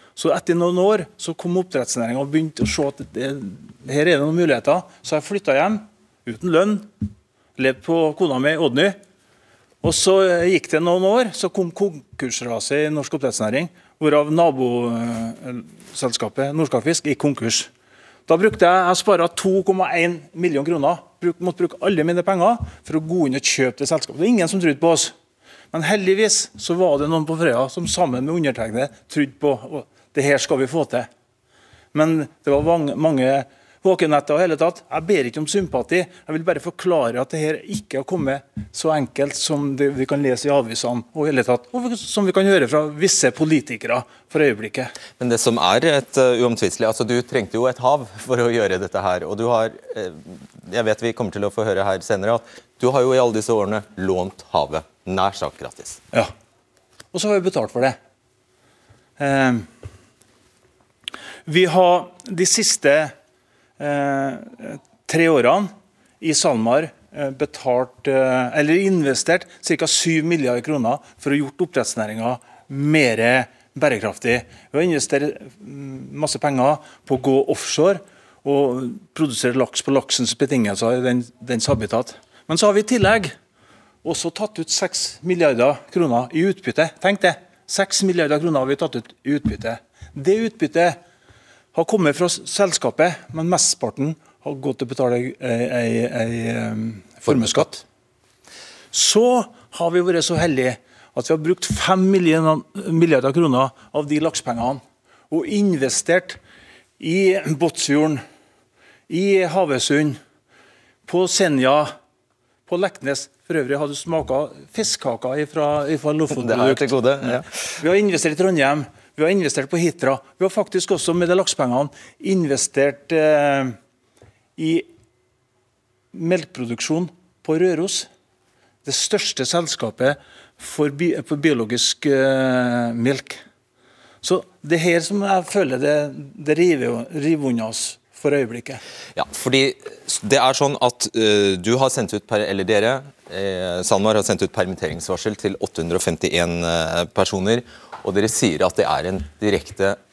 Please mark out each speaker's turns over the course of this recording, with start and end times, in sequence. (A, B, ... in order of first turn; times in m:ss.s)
0:00.2-0:07.0 A
0:07.6-0:09.0 A
0:09.8-0:17.7 A
0:18.3-0:25.1 A
0:25.7-0:31.1 A
0:31.9-0:44.9 A
0:45.2-0:56.0 B
0:57.1-0:58.0 A
0:59.2-0:59.7 A
1:01.4-1:03.1 A
1:03.8-1:23.3 A
1:24.0-1:31.0 A
1:31.7-1:37.8 A
1:37.2-1:37.7 B
1:38.9-1:46.4 A
1:47.0-1:48.2 A
1:49.1-1:50.2 A
1:51.0-1:51.9 A
1:52.7-2:03.8 A
1:56.4-1:57.8 B
2:04.6-2:04.8 A
2:06.1-2:08.1 A
2:08.8-2:13.4 A
2:14.2-2:18.8 A
2:19.1-2:30.0 B